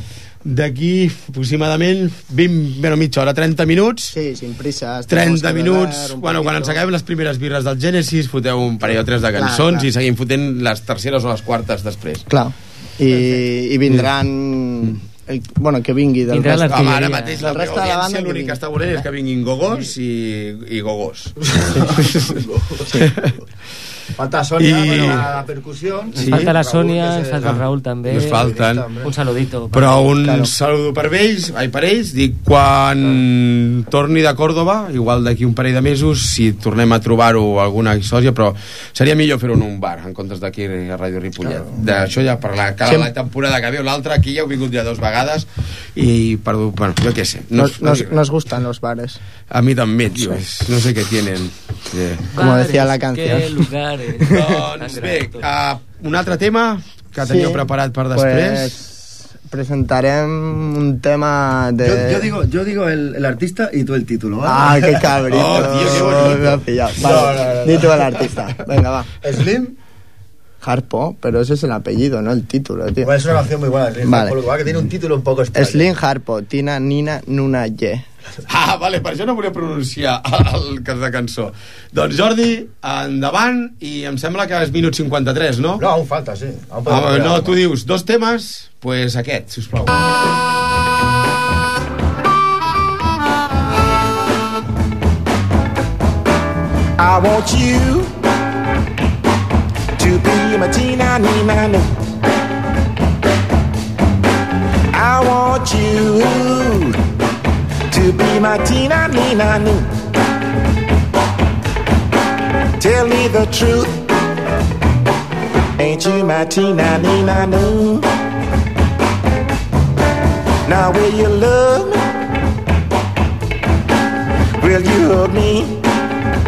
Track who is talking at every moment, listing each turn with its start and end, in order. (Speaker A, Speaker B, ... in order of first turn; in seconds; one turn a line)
Speaker A: 0.4-4.2
Speaker B: 4.1-6.8
Speaker A: 5.1-12.2
Speaker B: 9.3-9.9
Speaker B: 12.3-18.6
Speaker C: 16.3-17.4
Speaker A: 16.7-22.4
Speaker D: 21.5-22.8
Speaker A: 23.0-23.3
Speaker D: 24.2-29.1
Speaker A: 24.6-25.3
Speaker A: 26.1-26.6
Speaker C: 26.2-30.1
Speaker A: 27.4-28.9
Speaker A: 29.7-48.2
Speaker B: 30.2-30.5
Speaker B: 47.6-49.2
Speaker A: 49.5-52.2
Speaker C: 52.3-55.5
Speaker B: 52.4-53.6
Speaker A: 54.2-58.7
Speaker B: 57.2-62.3
Speaker D: 61.8-66.3
Speaker B: 64.5-69.1
Speaker A: 65.3-66.6
Speaker D: 67.0-68.2
Speaker D: 69.2-69.8
Speaker B: 70.6-73.1
Speaker D: 73.0-75.9
Speaker B: 74.0-74.4
Speaker B: 75.5-78.0
Speaker A: 78.5-85.9
Speaker D: 85.8-87.6
Speaker A: 86.9-90.0
Speaker E: 97.0-98.1
Speaker E: 100.0-101.9
Speaker E: 104.9-107.0
Speaker E: 107.9-109.9
Speaker E: 112.8-114.1
Speaker E: 115.8-118.1
Speaker E: 120.7-122.0
Speaker E: 124.6-125.8